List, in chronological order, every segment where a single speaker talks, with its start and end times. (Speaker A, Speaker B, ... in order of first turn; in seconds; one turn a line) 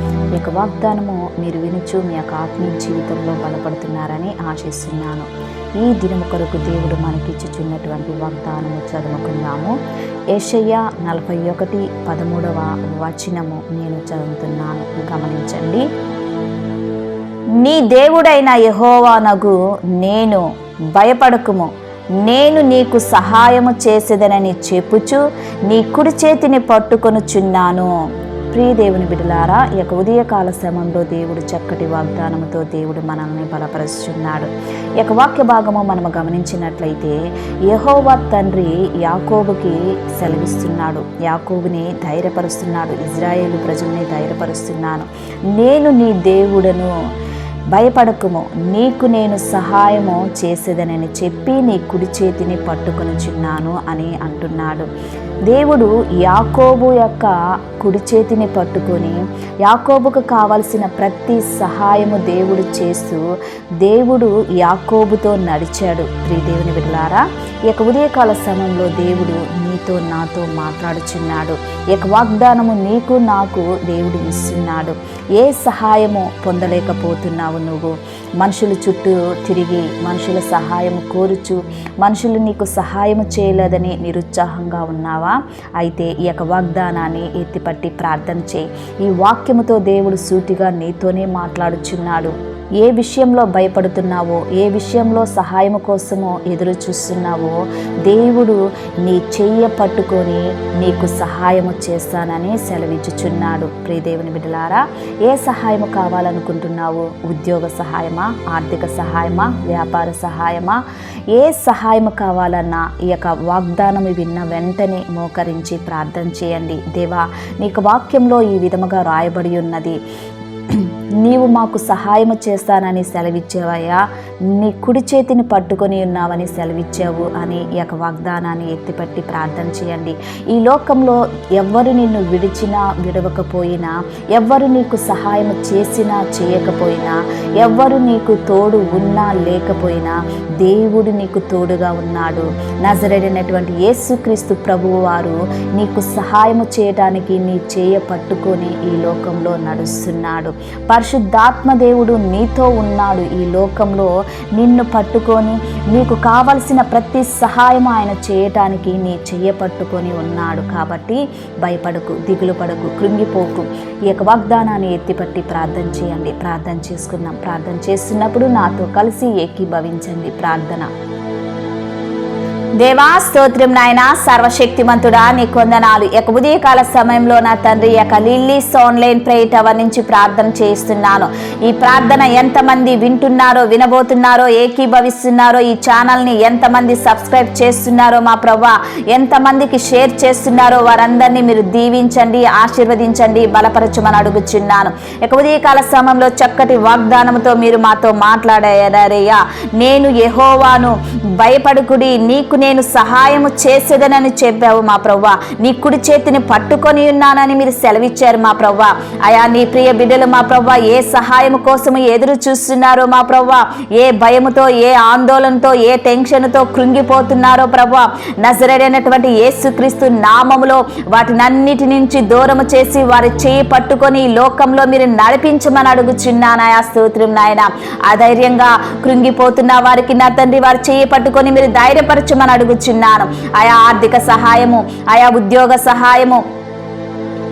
Speaker A: 0.3-5.3
Speaker A: 5.8-9.7
Speaker A: 10.3-15.8
Speaker A: 17.6-20.4
Speaker A: 20.9-21.7
Speaker A: 22.2-27.9
Speaker A: 28.5-34.5
Speaker A: 35.0-37.2
Speaker A: 37.7-46.9
Speaker A: 47.8-54.9
Speaker A: 55.5-57.3
Speaker A: 57.8-63.2
Speaker A: 63.9-110.8
Speaker A: 111.3-120.0
Speaker A: 120.7-124.0
Speaker A: 124.5-170.9
Speaker A: 172.8-236.4